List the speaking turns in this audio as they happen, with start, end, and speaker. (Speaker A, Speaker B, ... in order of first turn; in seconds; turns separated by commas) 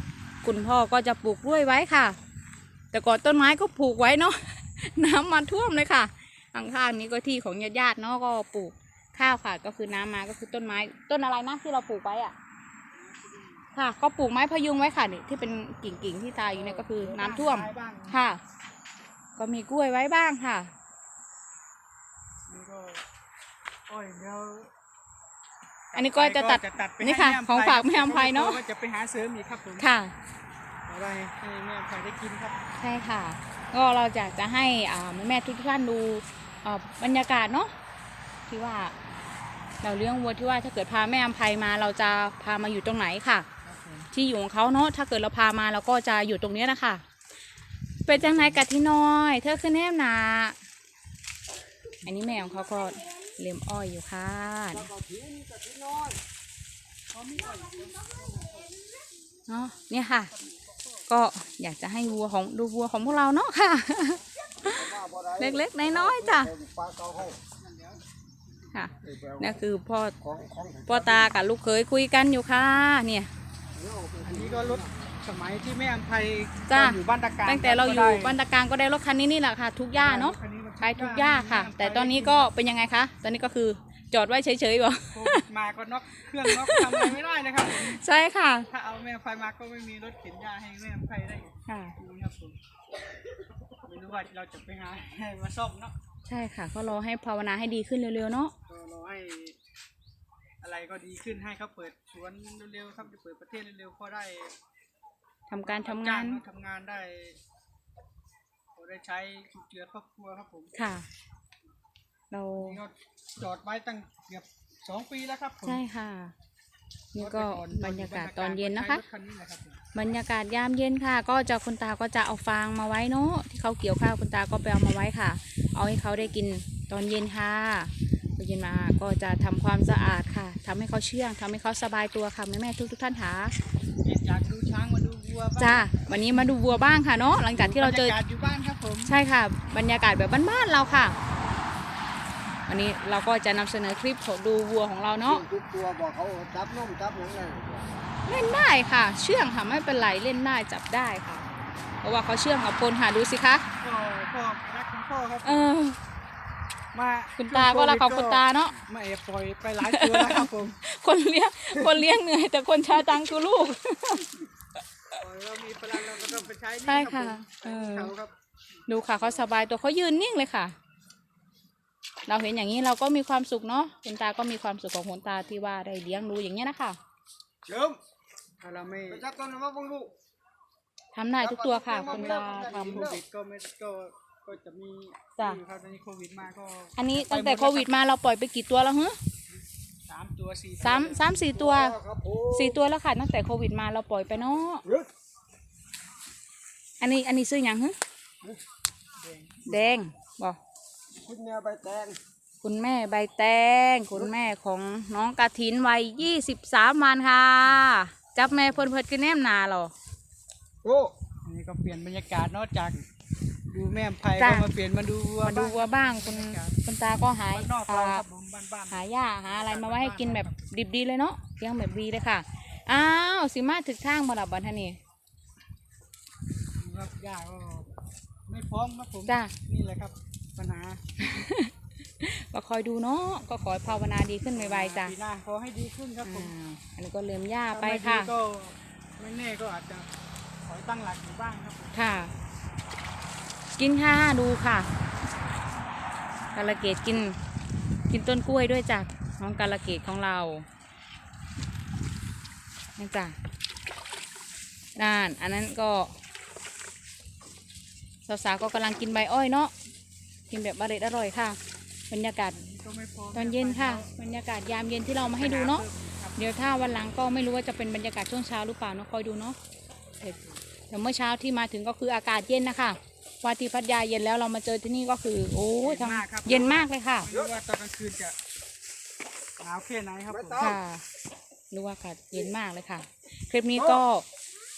Speaker A: 0.4-2.2, Speaker A: 2.9-12.4, Speaker B: 12.9-13.7, Speaker A: 13.7-18.4, Speaker B: 16.5-18.2, Speaker A: 19.4-20.7, Speaker B: 22.5-23.0, Speaker B: 23.9-24.7, Speaker B: 25.9-29.9, Speaker A: 25.9-28.6, Speaker A: 29.8-30.1, Speaker B: 30.9-32.6, Speaker A: 32.8-37.7, Speaker A: 38.5-39.0, Speaker A: 39.8-43.5, Speaker B: 43.6-44.1, Speaker A: 44.1-47.0, Speaker A: 48.1-50.6, Speaker B: 48.1-48.6, Speaker A: 52.0-54.9, Speaker C: 54.8-56.2, Speaker B: 57.1-58.8, Speaker A: 59.5-60.3, Speaker B: 60.3-61.2, Speaker A: 61.1-66.5, Speaker C: 64.7-67.4, Speaker B: 67.2-68.0, Speaker A: 68.7-70.2, Speaker C: 69.1-69.5, Speaker C: 70.2-71.3, Speaker A: 70.9-73.3, Speaker C: 73.8-74.8, Speaker B: 74.2-78.4, Speaker A: 76.7-85.4, Speaker B: 79.9-82.5, Speaker B: 85.1-88.0, Speaker A: 86.5-88.7, Speaker B: 88.7-92.6, Speaker A: 91.7-92.0, Speaker B: 93.8-95.9, Speaker A: 96.3-98.5, Speaker B: 98.7-99.6, Speaker B: 100.6-104.6, Speaker A: 105.5-106.4, Speaker B: 105.6-107.4, Speaker B: 108.8-110.7, Speaker A: 110.8-111.1, Speaker A: 112.3-112.8, Speaker B: 112.6-115.8, Speaker A: 115.6-116.3, Speaker A: 117.1-119.0, Speaker B: 117.2-119.8, Speaker A: 119.9-133.6, Speaker B: 134.0-136.5, Speaker A: 135.6-138.2, Speaker B: 137.6-139.1, Speaker A: 139.1-141.2, Speaker A: 142.7-145.4, Speaker C: 145.3-147.9, Speaker A: 148.3-151.4, Speaker A: 152.0-153.7, Speaker B: 153.8-155.7, Speaker A: 155.4-156.0, Speaker B: 156.9-160.8, Speaker A: 157.4-158.8, Speaker A: 159.8-164.4, Speaker B: 165.2-168.3, Speaker A: 166.9-168.1, Speaker A: 168.9-170.8, Speaker A: 172.3-177.0, Speaker C: 177.7-178.0, Speaker B: 178.6-179.2, Speaker C: 179.1-180.1, Speaker A: 181.1-183.1, Speaker C: 181.4-183.2, Speaker B: 181.9-187.9, Speaker A: 187.0-189.2, Speaker B: 190.1-191.2, Speaker A: 190.8-194.8, Speaker C: 191.5-192.8, Speaker A: 197.0-198.0, Speaker B: 199.2-199.7, Speaker A: 199.7-200.6, Speaker C: 201.2-202.2, Speaker A: 202.6-209.9, Speaker C: 210.8-211.2, Speaker B: 211.4-213.1, Speaker B: 213.7-216.8, Speaker A: 214.4-214.7, Speaker A: 215.4-218.2, Speaker B: 217.4-220.7, Speaker A: 218.9-225.0, Speaker B: 226.8-227.9, Speaker B: 228.5-231.4, Speaker A: 229.3-229.5, Speaker A: 231.2-235.2, Speaker B: 234.4-236.5, Speaker A: 236.2-238.3, Speaker B: 237.7-240.1, Speaker B: 240.7-242.0, Speaker A: 241.9-242.3, Speaker A: 243.8-244.9, Speaker A: 246.6-247.4, Speaker A: 248.1-250.7, Speaker A: 253.0-253.4, Speaker A: 255.0-256.1, Speaker A: 258.3-259.7, Speaker A: 260.5-261.6, Speaker A: 262.1-262.6, Speaker B: 262.6-264.2, Speaker A: 263.3-265.9, Speaker B: 265.1-266.7, Speaker A: 266.4-269.6, Speaker B: 270.2-270.6, Speaker A: 270.9-277.3, Speaker B: 275.8-278.4, Speaker B: 279.6-280.6, Speaker C: 280.4-280.8, Speaker A: 280.6-281.0, Speaker A: 281.7-284.3